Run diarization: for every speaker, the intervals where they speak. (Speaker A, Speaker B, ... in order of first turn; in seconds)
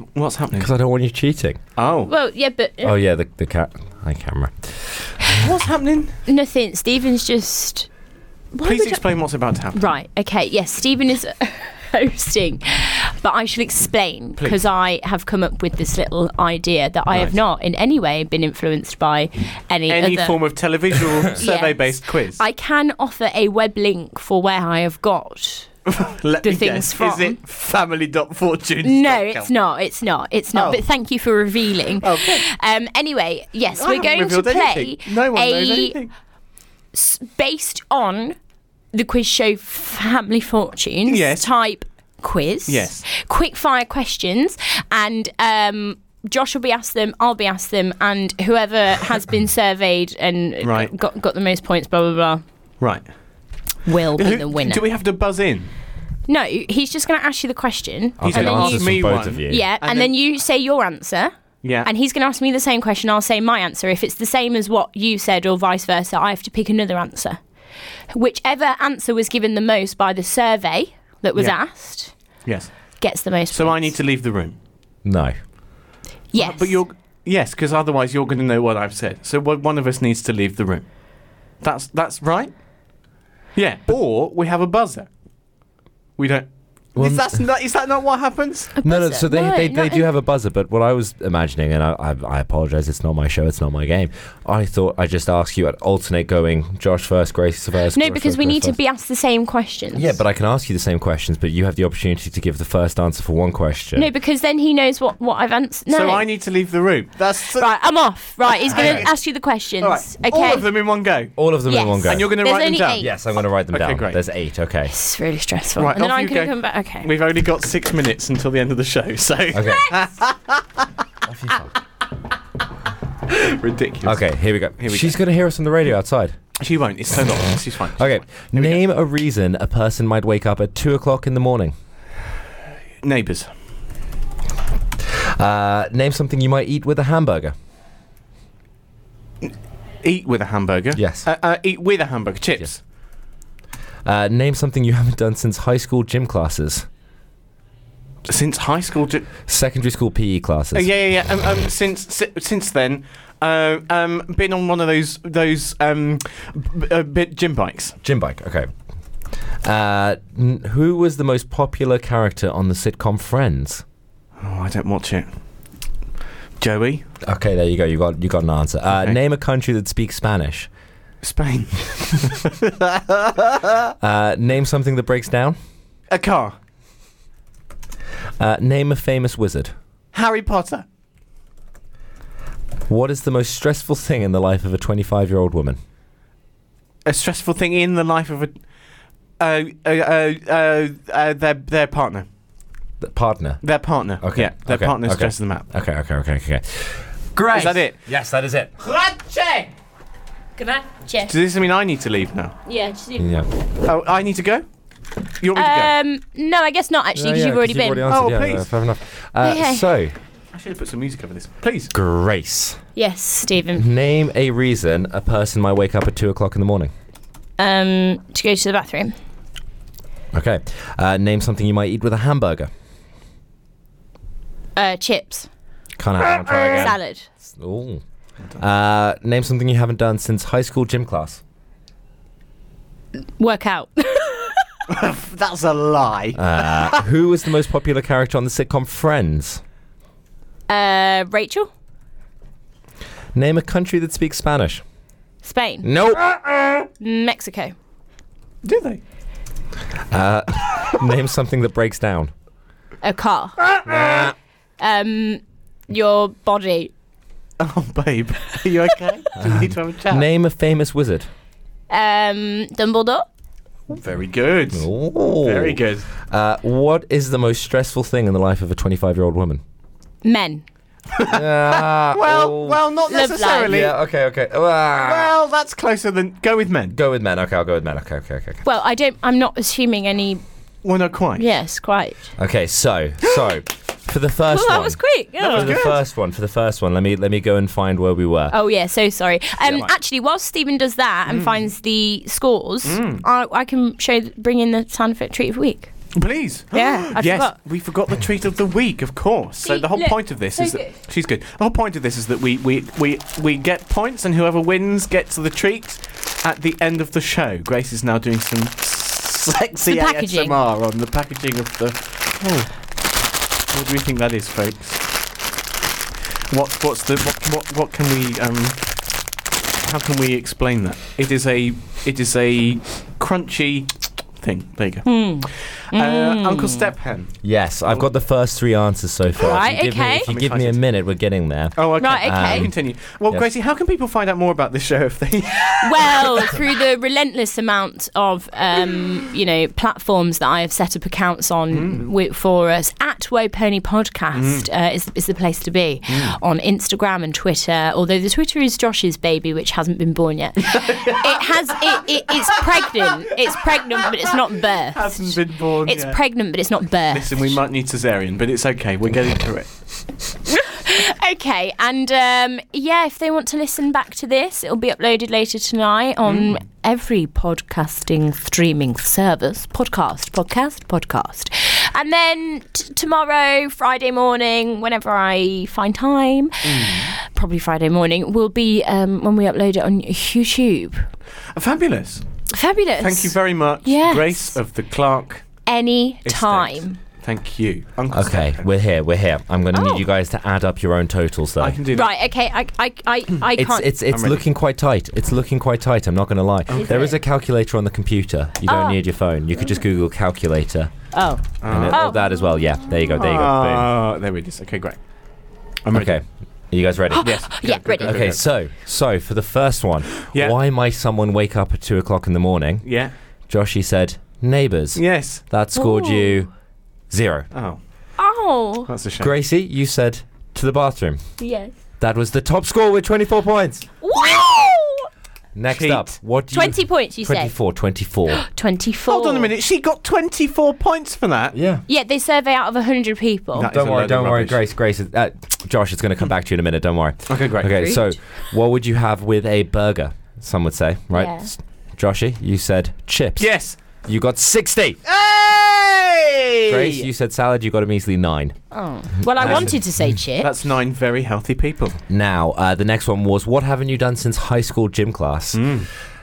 Speaker A: 0.1-0.7, 1.8-2.1, 5.3-6.2, 8.6-9.8, 14.4-14.6, 19.9-22.4, 25.9-29.5, 30.5-30.8, 32.0-32.4, 33.7-36.1, 41.0-41.5, 42.7-43.0, 50.6-50.9, 54.1-55.7, 58.2-60.1, 61.6-61.9, 72.4-73.0, 73.5-74.5, 76.3-80.8, 81.6-82.5, 83.5-85.1, 86.2-88.7, 105.9-107.7, 108.5-109.1, 109.8-111.4, 112.1-113.1, 113.7-114.2, 115.8-120.6, 123.3-124.2, 124.8-125.2, 126.6-128.8, 133.0-133.5, 140.0-142.8, 148.3-149.3, 150.7-158.0, 164.4-165.3, 166.6-167.0, 171.2-173.8, 176.1-176.6, 180.1-180.8, 187.0-188.6, 189.4-192.2, 193.6-195.7, 197.5-198.0, 199.0-199.7, 201.3-202.5, 203.8-204.6, 205.4-205.9, 208.1-208.7, 210.5-211.9, 234.9-237.1, 248.6-249.0, 253.8-254.3, 257.6-260.2, 263.9-266.1, 271.1-273.9, 275.0-277.0, 280.8-281.5, 285.4-286.0, 291.3-291.6, 292.8-293.2, 296.1-312.9, 313.7-315.1, 316.5-319.0, 319.8-328.1, 330.2-330.8, 331.8-336.6, 341.7-342.0, 344.3-344.7, 346.1-346.4, 350.7-352.6, 354.0-356.2, 357.1-359.9, 366.2-366.6, 376.6-377.1, 381.5-382.4, 383.0-385.4, 386.2-388.7, 391.6-392.1, 394.1-394.4, 396.7-397.1, 401.6-402.0, 403.2-405.0, 405.8-406.2, 407.2-408.4, 410.3-410.6, 412.8-413.1, 414.9-415.4, 417.5-417.8, 418.9-419.3, 425.7-426.1, 429.1-431.6, 433.5-434.6, 437.3-437.9, 443.4-443.8, 445.1-447.1, 449.4-449.8, 450.4-452.0, 455.5-455.9
Speaker B: 0.6-1.6, 2.8-5.3, 58.2-59.6, 75.0-75.3, 87.0-87.4, 88.8-98.8, 99.9-104.1, 111.4-112.3, 113.0-114.9, 119.5-119.9, 121.2-121.7, 124.0-126.3, 128.0-131.7, 135.2-137.5, 140.9-141.2, 144.0-146.8, 149.5-150.9, 158.0-158.7, 159.6-163.8, 167.2-170.7, 174.0-175.6, 178.4-179.7, 182.9-185.8, 193.0-193.6, 194.2-199.4, 203.2-203.5, 207.1-210.2, 211.9-212.8, 213.8-216.9, 220.3-222.7, 226.0-228.0, 228.6-231.4, 236.3-239.6, 243.3-244.8, 245.8-246.4, 250.1-252.3, 253.9-254.3, 259.4-261.3, 264.7-269.6, 271.3-272.8, 273.7-275.3, 276.9-278.6, 282.4-288.5, 327.4-332.7, 388.1-391.8, 393.6-401.1, 401.6-403.9, 405.9-407.3, 408.0-412.9, 413.5-416.5, 417.1-417.5, 419.2-421.2, 422.0-423.9, 425.5-428.4, 431.5-431.8, 433.7-445.0, 446.7-448.6, 449.2-449.7, 452.1-455.7
Speaker C: 2.1-2.9, 6.2-7.9, 8.5-9.0, 9.7-20.4, 21.3-25.7, 26.4-27.4, 28.8-36.0, 36.9-38.4, 38.9-52.4, 53.8-54.8, 56.3-67.4, 68.1-72.1, 73.0-73.9, 76.3-76.8, 88.8-90.1, 97.9-100.1, 104.0-106.2, 107.5-110.7, 111.7-113.1, 114.9-117.1, 119.6-119.9, 200.6-201.3, 202.7-203.3, 205.5-208.1, 209.4-209.9, 212.9-213.8, 217.6-219.1, 224.8-225.5, 226.4-227.3, 233.4-234.7, 240.7-241.7, 245.4-245.9, 247.0-247.7, 253.0-253.6, 254.8-256.9, 261.9-263.2, 270.2-270.6, 273.1-273.8, 278.6-280.4, 281.4-282.3, 284.5-285.9, 288.5-295.9, 296.7-297.6, 299.6-301.0, 309.9-310.5, 325.0-326.9, 329.4-330.3, 332.0-332.7, 335.8-357.6, 360.5-381.1, 382.5-384.5, 385.6-387.0, 389.7-390.0, 391.9-393.9, 396.7-397.1, 398.7-399.0, 401.1-403.1, 407.1-408.3, 415.7-416.5, 418.2-418.9, 421.4-421.7, 424.0-425.1, 426.5-427.5, 428.3-429.5, 431.9-433.7, 437.7-438.0, 441.1-441.5, 448.7-450.5